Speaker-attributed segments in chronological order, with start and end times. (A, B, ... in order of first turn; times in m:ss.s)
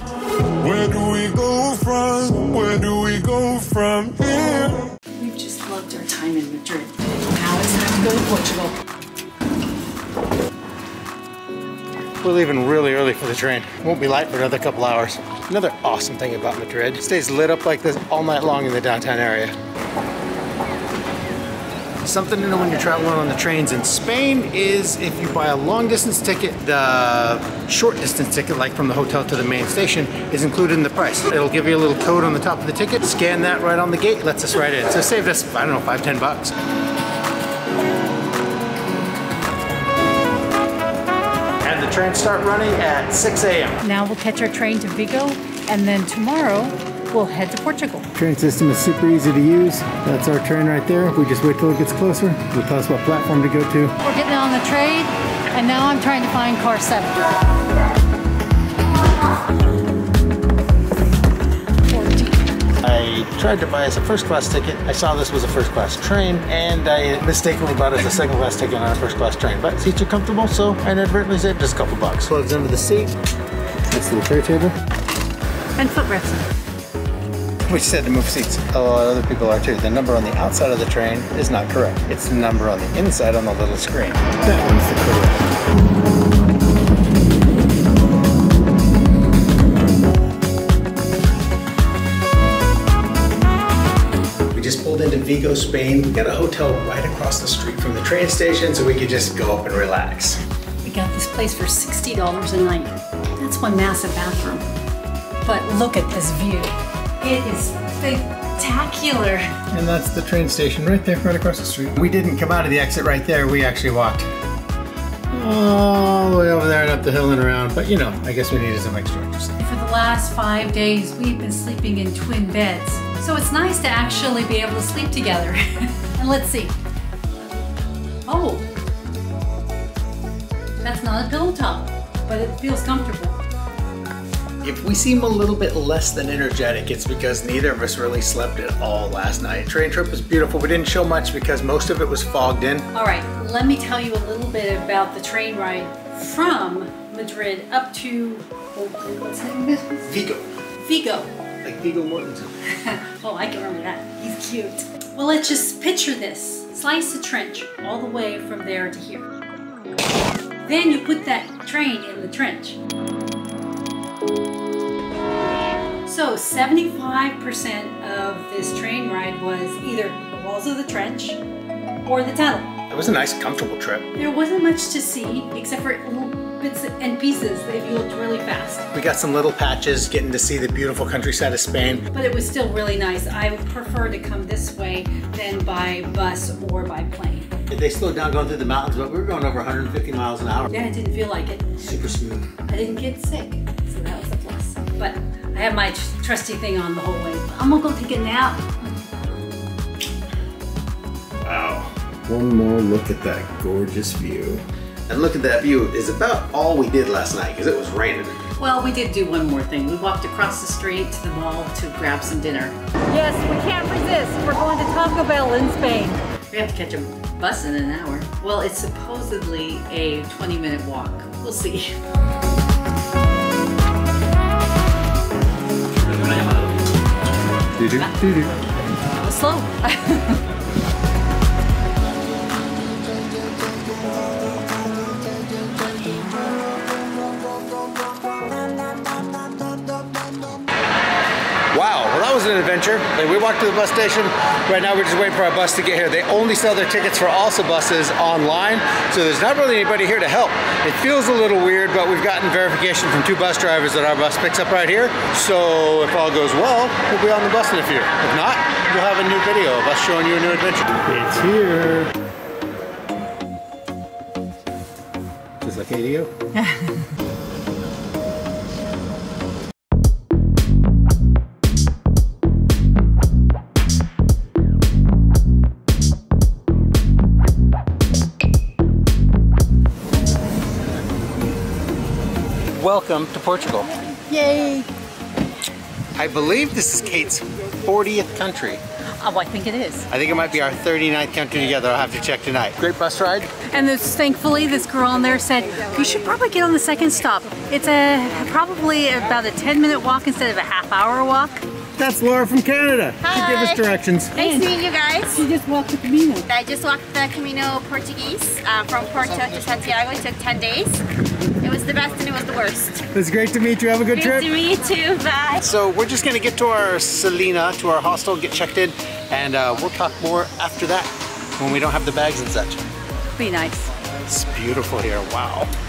0:00.6-0:04.9 A
0:05.2-0:08.8 B
0:12.2-0:19.5 C
0:22.0-0:36.5 C
0:41.6-0:43.8 C
0:43.8-0:48.1 B
0:48.2-0:53.9 C
0:54.0-0:57.3 B
1:01.9-1:02.4 B
1:02.8-1:13.1 C
1:13.9-1:14.8 C
1:15.8-1:16.5 B
1:17.7-1:25.5 C
1:34.5-1:40.4 C
1:40.8-1:44.6 B
1:45.4-1:49.5 B
1:49.7-1:54.3 C
1:55.3-1:59.5 C
1:59.6-2:05.6 B
2:06.1-2:06.7 B
2:08.3-2:08.7 B
2:10.8-2:13.4 B
2:14.6-2:22.9 C
2:22.9-2:30.0 B
2:30.0-2:30.5 C
2:30.8-2:31.3 B
2:31.6-2:32.5 C
2:32.8-2:39.3 B
2:40.6-2:42.8 B
2:46.0-2:51.4 B
2:52.0-2:52.7 B
2:52.9-2:54.1 C
2:54.1-2:58.9 B
2:58.9-3:02.0 C
3:02.1-3:07.5 B
3:07.7-3:10.7 C
3:10.7-3:11.8 B
3:11.8-3:12.5 C
3:12.6-3:19.0 B
3:21.4-3:28.4 C
3:28.6-3:42.0 B
3:47.8-3:48.5 C
3:49.2-3:50.3 B
4:01.7-4:22.1 C
4:25.6-4:26.3 C
4:42.7-4:43.9 C
4:44.3-4:44.9 B
4:46.2-4:48.8 C
4:49.2-4:50.1 B
4:50.1-4:53.5 C
4:53.7-5:01.6 B
5:02.0-5:04.3 C
5:03.2-5:05.4 D
5:04.4-5:04.7 B
5:05.3-5:06.5 B
5:06.5-5:11.0 D
5:11.6-5:13.1 D
5:13.1-5:14.5 C
5:14.1-5:15.6 D
5:15.6-5:22.8 C
5:23.3-5:23.9 B
5:24.3-5:25.7 C